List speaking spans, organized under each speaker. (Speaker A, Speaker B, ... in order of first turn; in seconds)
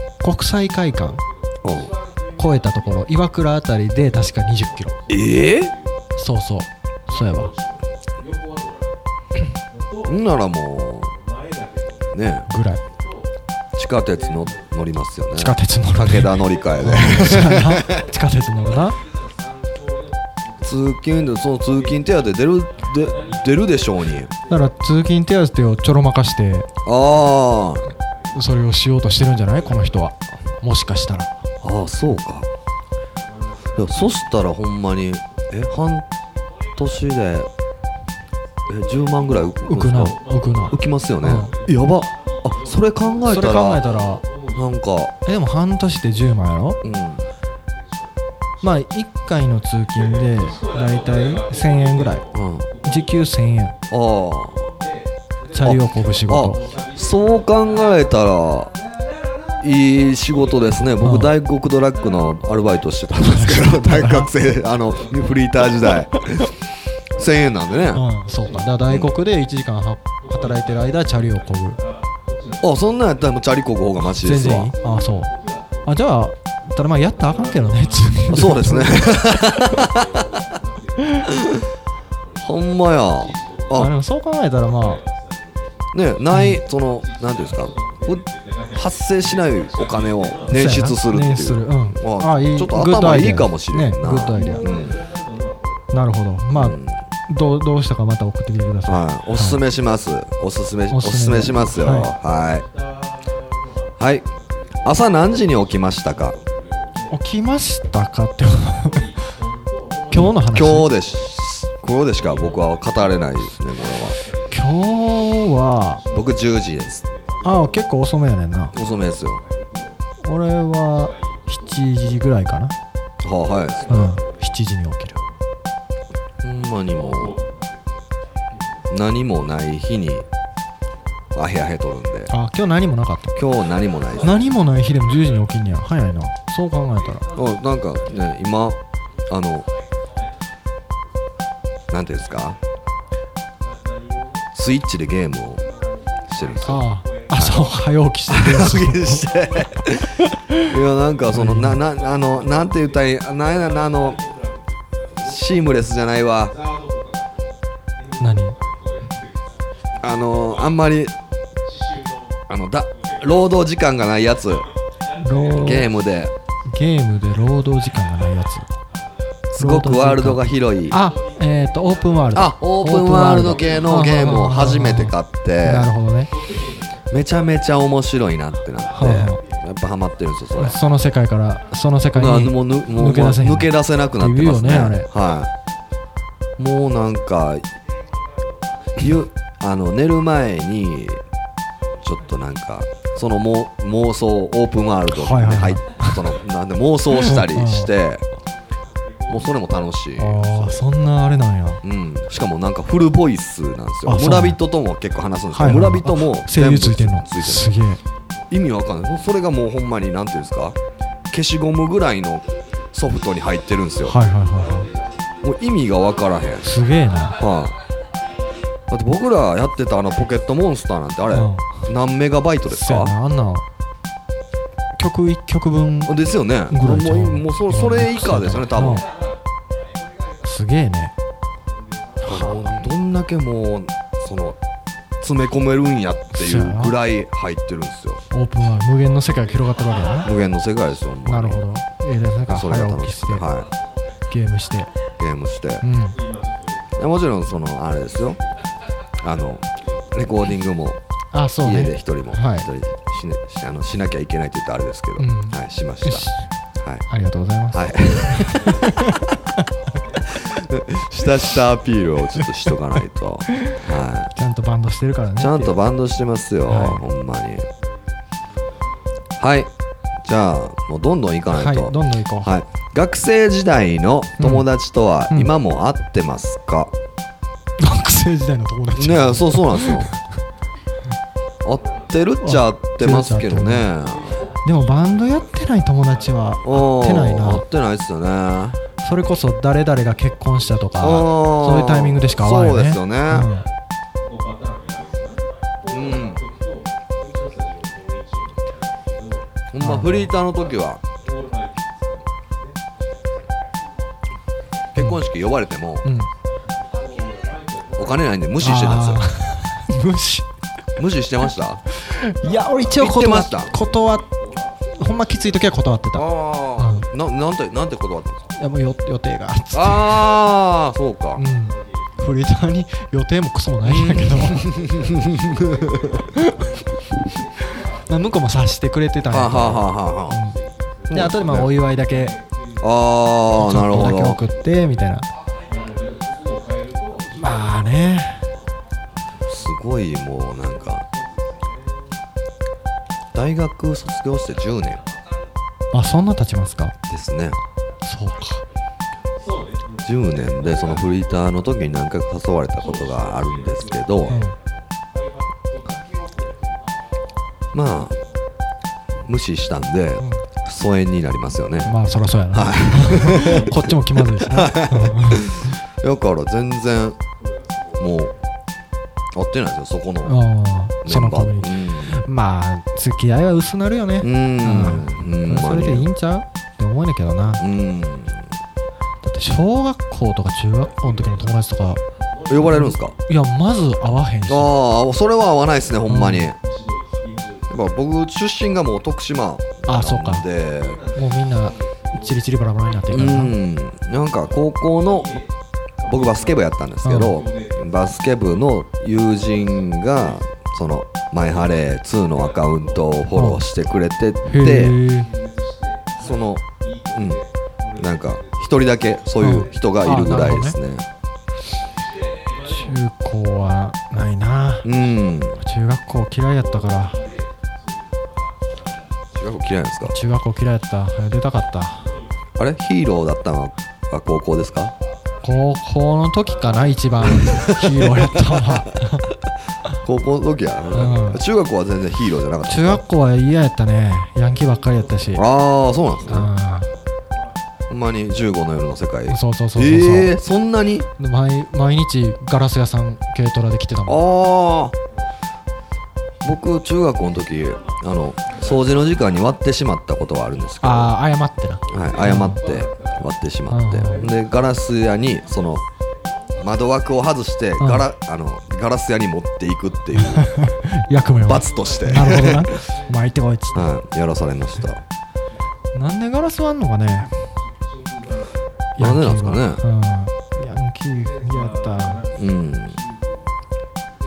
Speaker A: 0.2-1.2, 2.4-4.9, 6.2-7.5, 12.5-12.8, 15.3-19.0, 24.5-26.7, 28.3-31.4, 39.6-41.5, 43.3-44.2, 45.2-46.8, 48.6-52.2, 52.8-53.8, 55.5-56.6, 61.0-61.3, 63.2-64.3, 67.9-71.8, 74.0-75.3, 75.8-79.0, 83.8-85.0, 86.3-86.6, 90.5-94.7, 95.9-99.6, 100.9-102.1, 107.1-109.1, 110.1-110.9, 114.5-116.0, 117.4-118.7, 120.2-122.8, 123.9-125.2, 132.3-133.3, 134.2-137.2, 146.6-149.2, 150.3-150.6, 151.3-151.8, 158.2-158.6, 165.2-165.9, 166.7-168.7, 169.6-176.3, 178.9-179.4, 180.6-185.1, 195.1-196.2, 197.1-197.9, 200.2-201.8, 204.1-204.6, 205.5-208.0, 214.0-214.9, 216.6-217.4, 221.3-221.7, 222.7-223.6, 225.0-226.1, 226.7-229.1, 230.4-231.1, 232.2-232.8, 236.3-236.9, 238.3-240.3, 241.2-243.5, 244.3-244.9, 245.8-246.2, 251.3-252.7, 255.2-256.5, 257.1-259.6, 263.5-263.8, 264.3-265.8, 266.7-267.0, 271.5-272.5, 274.4-274.7, 277.8-280.2, 282.4-283.9, 284.6-287.6, 289.0-293.6, 299.8-300.3, 306.0-306.3, 308.6-310.5, 311.9-314.2, 314.9-316.2, 316.8-317.1, 318.6-320.2, 321.4-324.6, 326.3-326.6, 328.1-330.6, 331.1-332.4, 333.6-335.3, 337.4-338.5, 345.9-346.9, 348.0-348.6, 354.3-354.6, 360.2-360.5, 361.8-365.7, 370.2-377.6, 379.2-382.0, 382.7-384.7, 386.1-386.5, 389.9-390.4, 391.1-393.5, 397.0-397.4, 403.3-403.6, 404.4-405.3, 409.4-410.8, 412.6-414.9, 415.6-417.2, 420.0-422.1, 425.4-429.3, 430.9-431.4, 432.7-435.4, 436.3-436.9, 439.3-440.4, 441.2-444.2, 450.8-452.6, 453.7-454.3, 457.8-458.1, 460.2-463.9, 465.9-467.3, 469.0-472.2
Speaker B: 1.6-1.9, 5.1-5.7, 10.0-11.1, 12.1-12.5, 13.8-17.9, 20.6-24.3, 26.8-27.9, 31.6-32.5, 33.8-36.0, 36.8-37.5, 38.7-40.2, 40.7-43.8, 44.5-45.1, 46.8-47.2, 52.3-52.7, 53.9-54.7, 55.6-58.7, 59.6-66.5, 67.2-68.0, 68.9-69.1, 72.6-74.7, 78.3-80.3, 82.4-83.9, 85.9-95.0, 96.5-97.0, 98.9-102.7, 104.0-104.3, 104.8-106.4, 110.4-114.2, 116.1-117.1, 118.7-119.4, 123.2-124.1, 126.4-127.4, 128.9-130.2, 131.3-132.3, 133.3-134.4, 137.3-139.7, 141.9-142.6, 144.5-145.6, 146.3-147.8, 148.3-154.2, 155.1-156.6, 160.0-161.1, 162.5-164.7, 165.6-166.3, 169.5-171.0, 172.3-175.9, 177.1-180.8, 182.1-185.5, 186.6-187.7, 189.0-191.2, 192.0-198.2, 199.3-200.8, 201.8-207.7, 208.5-210.8, 211.3-214.2, 215.4-216.7, 217.4-217.8, 218.9-223.1, 226.1-229.0, 232.2-234.6, 235.2-238.2, 240.2-241.6, 242.5-243.7, 245.2-245.8, 247.0-248.4, 249.2-251.0, 251.6-256.3, 257.7-258.8, 260.3-264.3, 265.4-267.7, 269.4-269.7, 270.2-276.9, 279.0-280.1, 281.6-284.4, 286.6-288.8, 291.0-293.5, 295.9-296.4, 299.7-301.0, 304.9-306.1, 308.0-309.2, 311.0-311.8, 313.0-313.7, 316.1-318.4, 319.7-321.4, 323.8-326.2, 329.3-330.4, 331.1-331.7, 332.8-334.4, 339.5-341.1, 343.3-345.0, 347.1-347.6, 350.0-354.4, 357.7-358.1, 359.2-361.9, 362.5-367.2, 368.0-368.3, 369.3-370.4, 371.0-372.2, 374.2-376.1, 377.6-378.5, 382.5-383.1, 384.5-386.6, 387.7-391.0, 393.1-395.4, 396.1-405.0, 406.1-407.4, 408.0-411.1, 414.8-415.6, 419.3-420.1, 422.6-424.9, 427.4-428.8, 430.0-433.0, 435.4-436.5, 437.9-441.1, 444.1-444.9, 446.4-451.1, 451.9-455.8, 456.6-460.6, 461.4-462.7, 463.7-465.0, 469.0-469.8, 472.4-473.0